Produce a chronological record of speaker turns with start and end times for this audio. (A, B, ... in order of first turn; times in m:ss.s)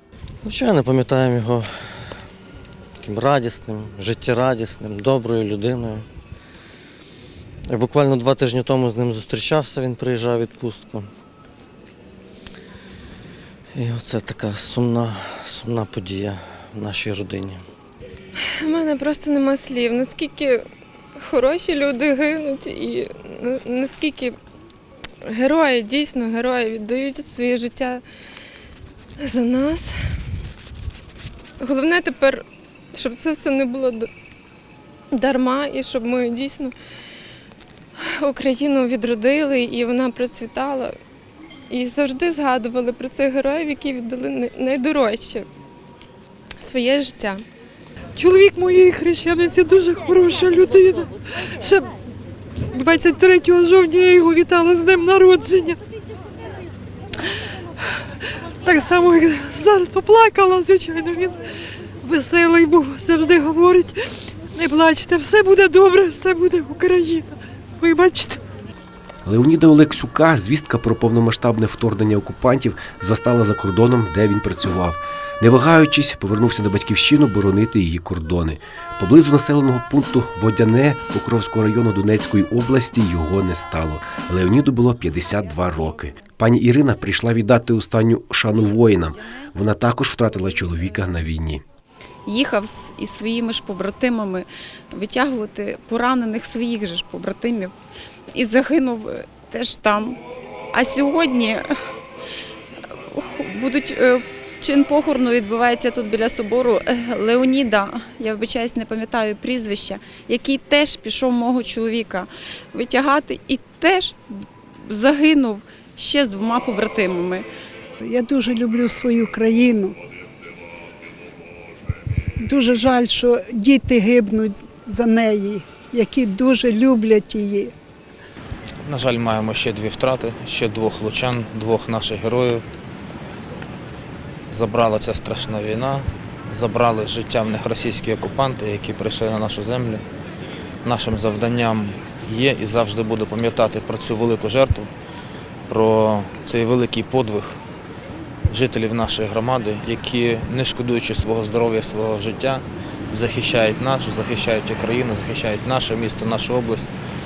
0:00.4-0:02.2 A
0:03.0-0:06.1 A
0:07.7-0:11.1 A
0:13.7-0:17.6 A
0:18.6-0:20.6 B
0:21.2-0:24.4 B
0:25.2-0:28.0 B
0:29.2-0:30.0 B
0:31.6-0:34.1 B
0:35.1-0:36.7 B
0:38.0-0:40.9 B
0:41.7-0:45.5 B
0:46.6-0:47.4 B
0:48.2-0:51.9 C
0:52.7-0:55.8 C
0:58.6-1:01.4 C
1:02.0-1:03.9 C
1:04.5-1:08.4 C
1:09.2-1:31.6 D
1:32.2-1:37.7 E
1:38.3-1:40.2 E
1:40.7-1:41.6 E
1:43.1-1:54.3 E
1:54.8-1:57.4 E
1:58.1-1:59.9 F
2:02.4-2:07.7 F
2:08.8-2:12.6 G
2:14.5-2:20.0 G
2:20.8-2:24.9 G
2:25.7-2:27.6 G
2:28.5-2:36.9 G